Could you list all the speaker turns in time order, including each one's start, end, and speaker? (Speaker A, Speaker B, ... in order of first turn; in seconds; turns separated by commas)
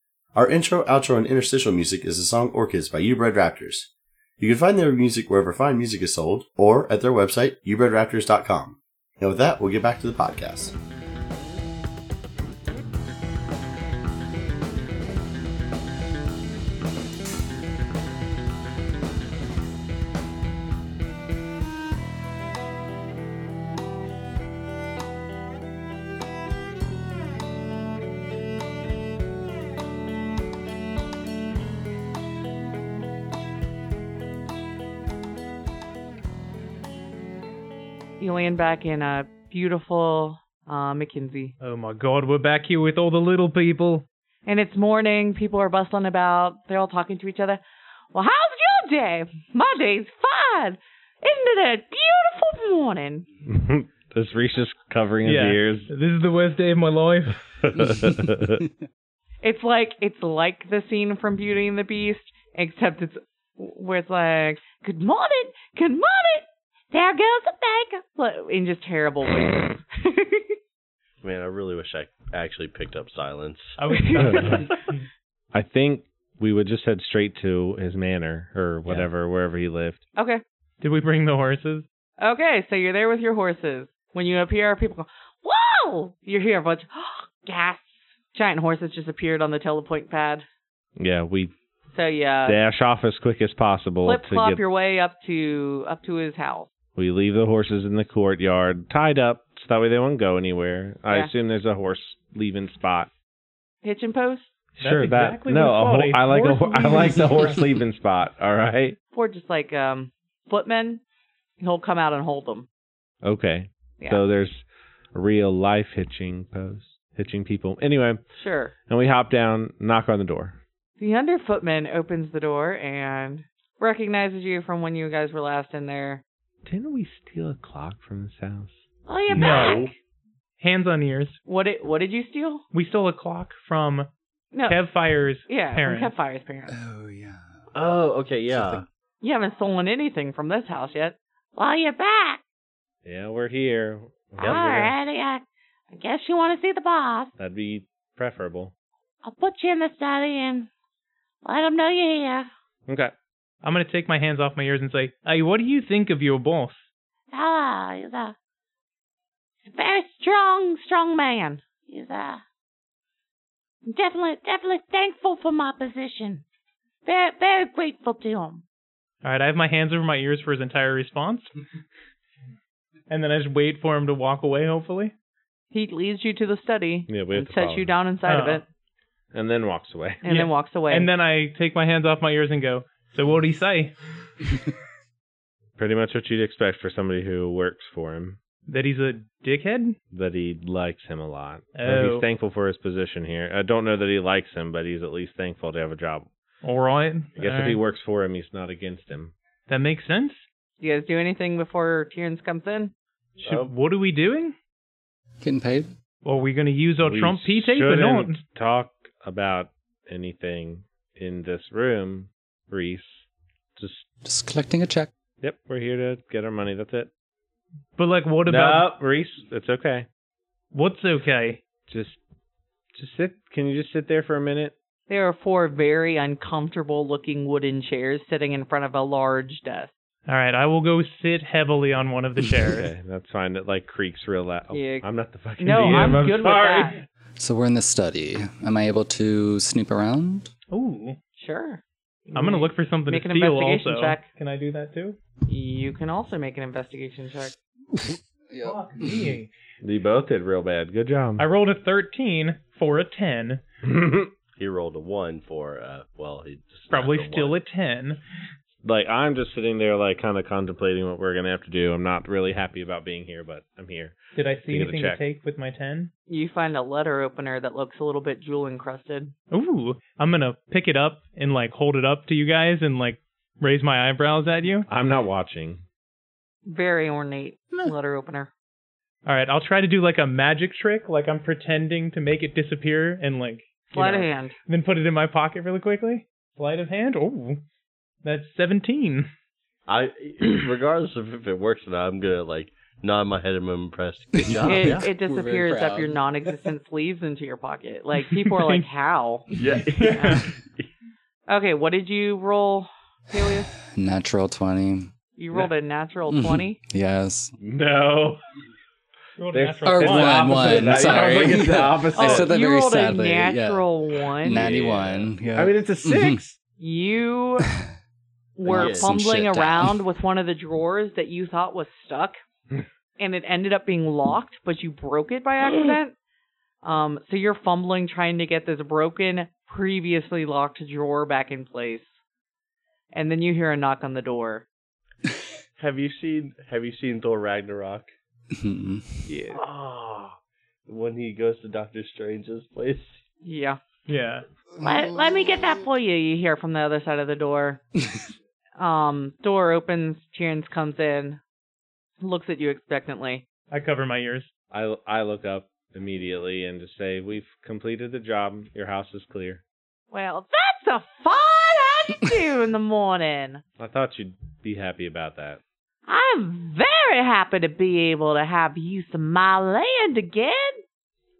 Speaker A: 0.3-10.7, Speaker B: 38.2-41.5, Speaker C: 41.6-44.0, Speaker B: 44.5-47.6, Speaker B: 48.1-53.3, Speaker D: 53.4-55.9, Speaker C: 55.2-57.6, Speaker D: 57.8-58.6, Speaker B: 59.4-70.5, Speaker E: 71.2-73.8, Speaker C: 73.8-74.7, Speaker B: 73.9-74.5, Speaker D: 74.2-74.7, Speaker D: 75.5-80.0, Speaker B: 80.2-80.4, Speaker C: 80.8-81.8, Speaker B: 82.2-90.5, Speaker D: 91.0-91.5, Speaker B: 91.9-92.6, Speaker D: 92.5-94.6, Speaker B: 94.0-96.7, Speaker D: 97.0-103.1, Speaker B: 103.8-104.5, Speaker C: 104.8-107.6, Speaker D: 104.8-109.0, Speaker B: 109.1-111.0, Speaker B: 111.6-112.7, Speaker D: 113.2-118.2, Speaker B: 118.3-118.7, Speaker D: 118.9-120.6, Speaker B: 121.0-126.2, Speaker D: 126.6-128.8, Speaker B: 129.1-129.9, Speaker E: 129.3-129.9, Speaker C: 129.3-129.8, Speaker C: 130.6-131.4, Speaker B: 131.5-132.6, Speaker C: 132.7-134.1, Speaker B: 134.5-134.8, Speaker C: 134.7-136.1, Speaker B: 135.5-136.7, Speaker F: 136.7-137.6, Speaker E: 137.7-138.8, Speaker F: 138.5-138.8, Speaker B: 139.2-142.4, Speaker D: 143.0-144.9, Speaker B: 144.4-147.3, Speaker E: 144.4-144.7, Speaker D: 147.4-148.7, Speaker B: 149.2-150.7, Speaker B: 151.4-152.5, Speaker D: 152.8-153.1, Speaker C: 153.6-156.9, Speaker B: 157.3-158.3, Speaker B: 159.7-162.4, Speaker B: 163.8-166.4, Speaker B: 167.1-168.6, Speaker C: 169.2-171.5, Speaker C: 173.1-175.1, Speaker B: 175.7-178.6, Speaker D: 177.1-177.9, Speaker C: 178.2-178.6, Speaker D: 179.3-180.2, Speaker B: 180.2-181.1, Speaker C: 180.2-183.9, Speaker D: 185.8-188.4, Speaker C: 188.7-190.0, Speaker D: 190.1-196.3, Speaker C: 191.7-192.2, Speaker C: 196.6-197.8, Speaker D: 197.4-199.3, Speaker C: 199.7-200.4, Speaker B: 200.8-202.9, Speaker E: 203.4-203.7, Speaker C: 203.4-204.5, Speaker F: 205.4-205.9, Speaker C: 206.2-208.4, Speaker D: 207.0-214.0, Speaker F: 214.2-215.1, Speaker D: 215.4-217.1, Speaker C: 218.0-218.9, Speaker D: 218.5-220.1, Speaker C: 220.7-221.6, Speaker D: 221.9-222.2, Speaker D: 222.9-224.7, Speaker B: 225.1-229.9, Speaker C: 230.3-232.9, Speaker D: 232.7-237.0, Speaker B: 234.7-235.1, Speaker B: 235.6-236.9, Speaker F: 237.4-240.5, Speaker C: 240.7-241.2, Speaker B: 241.4-244.2, Speaker C: 242.3-245.2, Speaker B: 245.5-247.6, Speaker F: 248.0-249.3, Speaker C: 248.6-249.5, Speaker D: 249.8-251.4, Speaker C: 251.4-253.6, Speaker D: 253.8-254.3, Speaker E: 254.6-257.6, Speaker C: 256.9-258.2, Speaker D: 258.8-265.2, Speaker C: 264.3-266.1, Speaker B: 266.3-269.3, Speaker C: 269.5-274.9, Speaker D: 274.9-275.8, Speaker B: 276.6-278.5, Speaker C: 279.2-287.6, Speaker B: 283.9-284.5, Speaker C: 288.2-289.3, Speaker E: 289.9-295.1, Speaker F: 294.3-296.2, Speaker B: 294.6-299.4, Speaker C: 298.5-298.8, Speaker E: 299.6-300.9, Speaker C: 300.0-300.4, Speaker B: 300.0-300.4, Speaker B: 301.5-303.7, Speaker F: 303.9-305.1, Speaker B: 305.4-306.8, Speaker F: 306.3-307.5, Speaker D: 307.6-308.4, Speaker C: 309.4-311.5, Speaker D: 309.5-312.5, Speaker F: 309.9-316.4, Speaker B: 312.1-314.6, Speaker D: 314.5-316.6, Speaker B: 316.8-317.7, Speaker B: 318.6-322.4, Speaker F: 318.6-320.0, Speaker E: 318.7-319.1, Speaker B: 323.2-326.1, Speaker B: 326.8-332.1, Speaker B: 333.1-334.6, Speaker E: 335.8-338.1, Speaker F: 338.6-339.1, Speaker C: 339.3-339.6, Speaker E: 339.5-340.4, Speaker E: 340.9-343.2, Speaker B: 343.4-343.8, Speaker C: 344.1-344.4, Speaker F: 344.8-345.7, Speaker B: 344.8-347.8, Speaker B: 348.8-351.4, Speaker B: 352.2-353.4, Speaker C: 353.7-354.5, Speaker D: 354.7-359.6, Speaker B: 360.1-363.6, Speaker D: 363.8-365.6, Speaker B: 366.1-370.8